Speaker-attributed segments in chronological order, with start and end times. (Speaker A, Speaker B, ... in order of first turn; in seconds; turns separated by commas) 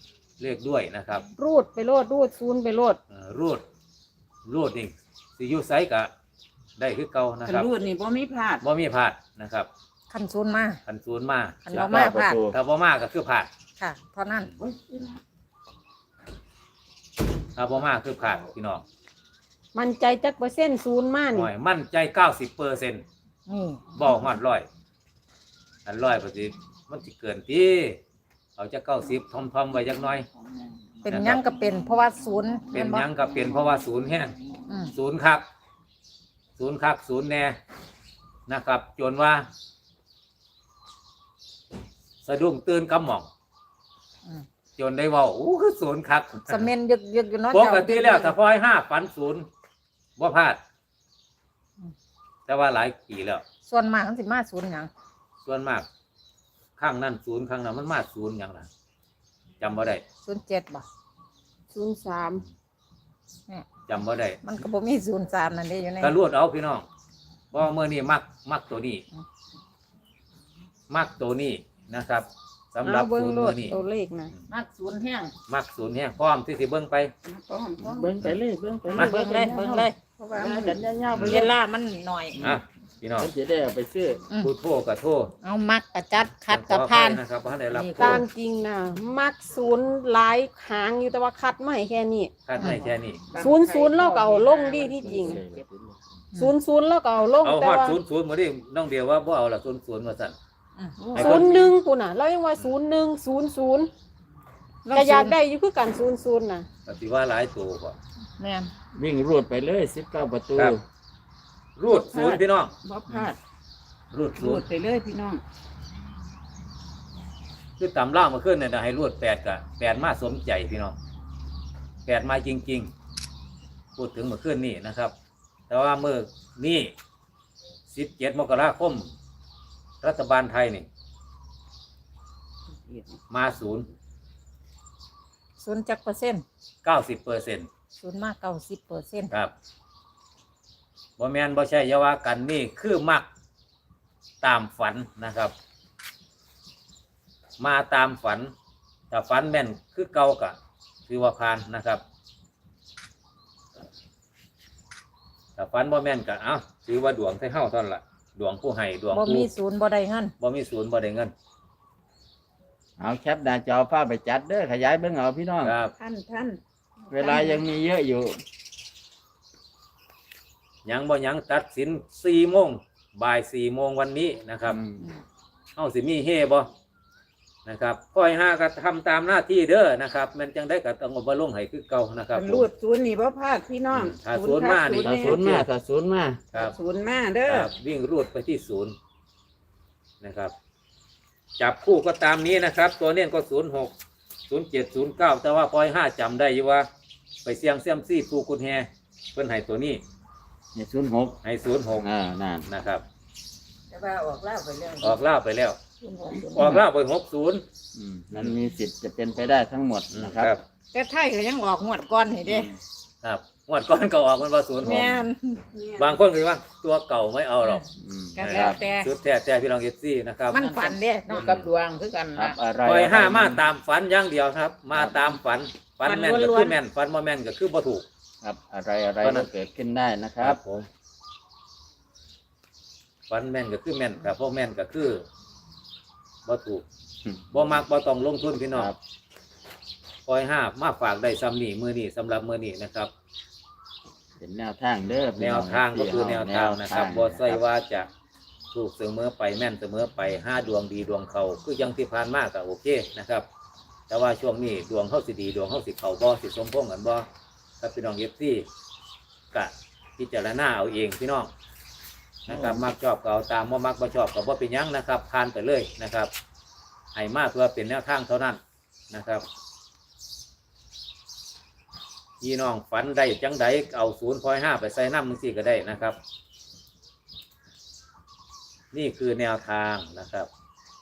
Speaker A: 0.4-1.2, Speaker B: 1.4-3.0, Speaker A: 3.1-3.6, Speaker A: 4.5-6.1, Speaker A: 6.8-7.7, Speaker C: 7.4-8.6, Speaker A: 8.6-9.7, Speaker D: 10.1-10.8, Speaker A: 10.8-11.9, Speaker D: 11.6-12.4, Speaker E: 11.7-12.5, Speaker A: 12.5-13.5, Speaker D: 13.8-14.5, Speaker C: 14.6-15.2, Speaker A: 17.6-18.8, Speaker B: 19.7-21.5, Speaker A: 21.3-23.0, Speaker D: 23.5-23.8, Speaker A: 23.9-24.7, Speaker A: 25.9-28.0, Speaker A: 28.6-30.2, Speaker D: 31.0-33.1, Speaker A: 31.1-31.5, Speaker A: 32.7-34.3, Speaker D: 34.7-34.9, Speaker A: 34.9-35.4, Speaker A: 36.6-37.6, Speaker A: 38.5-39.5, Speaker A: 42.2-43.3, Speaker A: 44.8-46.7, Speaker D: 46.5-48.4, Speaker A: 47.5-49.5, Speaker A: 50.2-50.6, Speaker A: 52.5-53.4, Speaker D: 53.6-54.9, Speaker A: 55.4-55.9, Speaker A: 56.8-58.7, Speaker A: 59.6-60.0, Speaker D: 60.2-60.9, Speaker B: 61.7-62.4, Speaker A: 63.9-64.4, Speaker D: 64.4-66.2, Speaker A: 66.0-66.9, Speaker A: 67.5-69.0, Speaker A: 70.9-73.8, Speaker B: 72.8-74.3, Speaker D: 74.5-75.3, Speaker A: 75.5-77.1, Speaker C: 77.2-78.1, Speaker E: 77.8-79.8, Speaker D: 78.9-80.0, Speaker C: 78.9-80.8, Speaker E: 80.4-81.5, Speaker A: 81.1-81.5, Speaker D: 81.2-82.5, Speaker A: 82.4-83.3, Speaker E: 83.2-84.2, Speaker A: 84.4-85.3, Speaker D: 85.4-88.2, Speaker A: 86.5-88.2, Speaker B: 88.0-92.3, Speaker A: 92.5-93.2, Speaker D: 92.6-92.9, Speaker C: 93.3-95.6, Speaker B: 93.3-95.4, Speaker E: 94.9-96.0, Speaker B: 96.3-98.0, Speaker A: 97.4-100.4, Speaker D: 100.8-101.1, Speaker C: 101.0-101.4, Speaker B: 101.1-103.9, Speaker A: 101.1-101.5, Speaker D: 104.8-105.3, Speaker B: 104.9-106.7, Speaker A: 106.8-108.0, Speaker D: 108.4-108.7, Speaker E: 108.9-110.8, Speaker A: 111.8-113.2, Speaker C: 111.9-113.4, Speaker A: 114.1-114.6, Speaker C: 114.3-115.4, Speaker A: 117.8-121.0, Speaker A: 122.0-122.9, Speaker A: 124.0-125.1, Speaker A: 125.7-126.9, Speaker A: 127.9-129.1, Speaker A: 130.0-130.9, Speaker C: 132.8-133.2, Speaker A: 133.3-133.9, Speaker D: 135.6-136.4, Speaker A: 136.8-137.7, Speaker D: 137.9-139.3, Speaker A: 141.2-143.3, Speaker A: 144.4-145.5, Speaker A: 147.6-148.5, Speaker A: 149.1-150.6, Speaker A: 151.1-152.0, Speaker A: 155.6-159.5, Speaker D: 159.1-160.3, Speaker A: 160.4-161.3, Speaker E: 163.0-165.7, Speaker A: 165.6-165.9, Speaker C: 165.9-166.6, Speaker E: 167.1-168.4, Speaker C: 167.1-167.6, Speaker A: 170.8-174.8, Speaker E: 174.7-175.1, Speaker A: 175.8-176.7, Speaker A: 177.6-182.7, Speaker C: 182.3-185.5, Speaker A: 183.9-185.7, Speaker E: 185.0-186.4, Speaker C: 186.5-187.7, Speaker A: 187.4-188.9, Speaker A: 190.2-190.5, Speaker A: 191.6-193.9, Speaker A: 194.5-196.9, Speaker A: 197.4-200.0, Speaker E: 200.7-201.4, Speaker A: 201.4-202.1, Speaker E: 202.0-202.7, Speaker A: 202.7-203.0, Speaker C: 203.9-205.1, Speaker A: 205.0-205.8, Speaker C: 206.0-206.8, Speaker A: 206.5-207.6, Speaker E: 207.9-210.6, Speaker A: 210.1-210.6, Speaker D: 210.9-212.8, Speaker E: 212.5-212.7, Speaker A: 213.2-215.2, Speaker D: 214.8-215.6, Speaker C: 215.7-216.2, Speaker A: 216.0-217.8, Speaker E: 217.9-218.8, Speaker A: 218.4-221.7, Speaker D: 218.4-219.1, Speaker D: 220.5-222.6, Speaker E: 222.3-223.6, Speaker A: 222.8-228.1, Speaker E: 224.9-225.2, Speaker D: 226.0-226.8, Speaker E: 228.4-230.6, Speaker A: 229.2-229.5, Speaker A: 230.4-230.9, Speaker A: 233.3-235.2, Speaker A: 236.4-236.8, Speaker A: 237.5-238.9, Speaker E: 238.7-239.0, Speaker A: 240.2-243.1, Speaker E: 244.4-247.6, Speaker A: 245.4-248.1, Speaker A: 248.7-253.4, Speaker A: 254.1-257.3, Speaker A: 257.8-258.6, Speaker A: 259.5-261.5, Speaker A: 262.5-266.3, Speaker E: 262.5-262.9, Speaker A: 267.1-268.6, Speaker A: 269.1-269.4, Speaker A: 272.4-276.2, Speaker A: 278.9-280.5